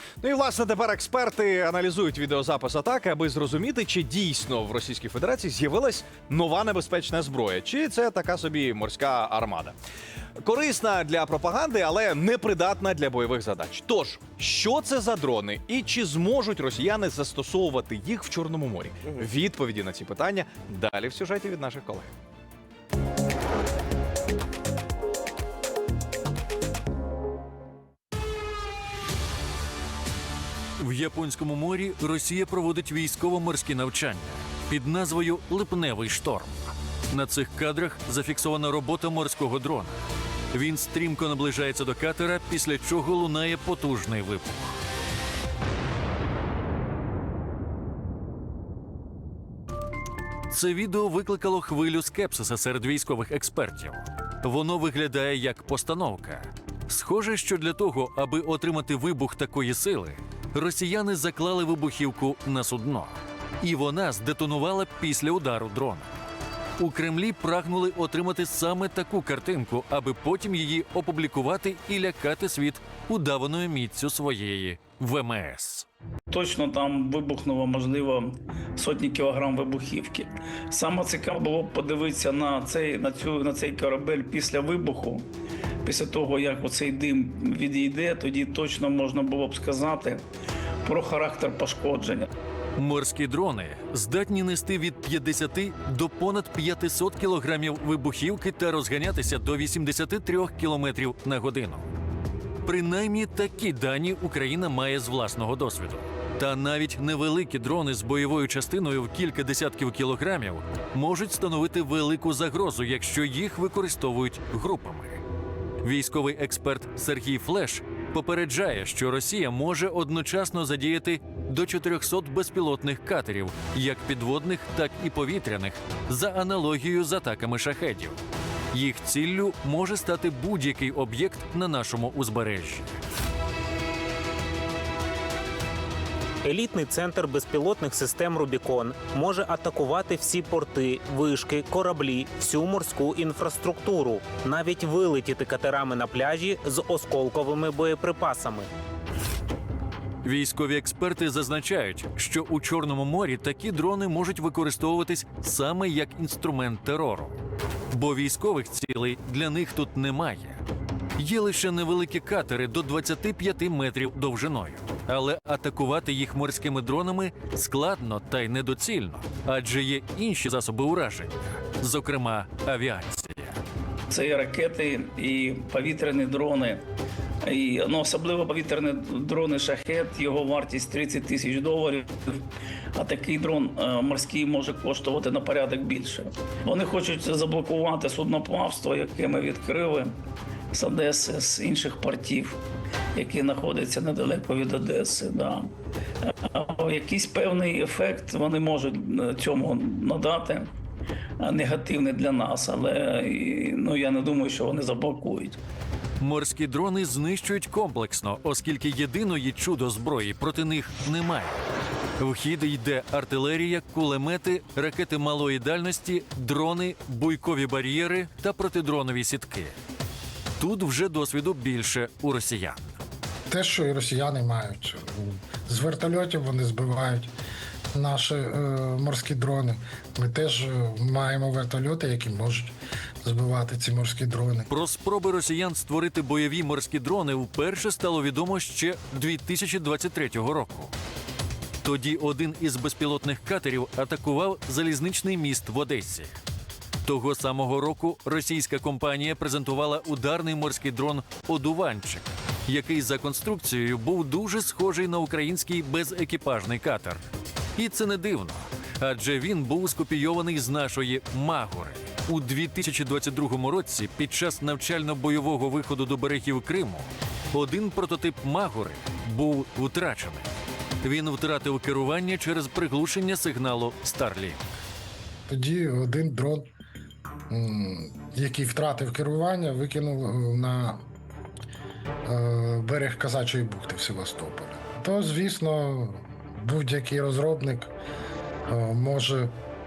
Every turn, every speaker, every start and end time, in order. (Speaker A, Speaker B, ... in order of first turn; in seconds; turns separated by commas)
Speaker A: 0.2-9.8, Speaker A: 10.4-22.1, Speaker B: 30.8-40.0, Speaker B: 40.5-44.8, Speaker B: 50.5-66.1, Speaker B: 66.8-75.9, Speaker C: 76.3-85.2, Speaker C: 85.8-90.2, Speaker C: 90.8-92.3, Speaker B: 92.8-101.8, Speaker B: 102.6-115.2, Speaker B: 115.8-128.2, Speaker B: 128.7-132.9, Speaker D: 136.5-148.7, Speaker B: 150.2-157.3, Speaker B: 157.9-160.6, Speaker B: 161.2-173.6, Speaker C: 174.1-176.8, Speaker C: 177.4-190.2, Speaker C: 190.7-192.6, Speaker C: 193.2-195.7, Speaker C: 196.3-200.7, Speaker C: 201.4-205.6, Speaker B: 206.2-211.6, Speaker B: 212.2-219.7, Speaker B: 220.6-222.9, Speaker E: 223.5-227.3, Speaker E: 227.9-234.7, Speaker B: 234.7-240.9, Speaker B: 241.8-246.3, Speaker B: 247.0-257.2, Speaker B: 257.8-270.5, Speaker B: 271.0-274.8, Speaker E: 275.5-276.7, Speaker E: 277.5-281.1, Speaker E: 282.2-287.9, Speaker E: 288.7-289.5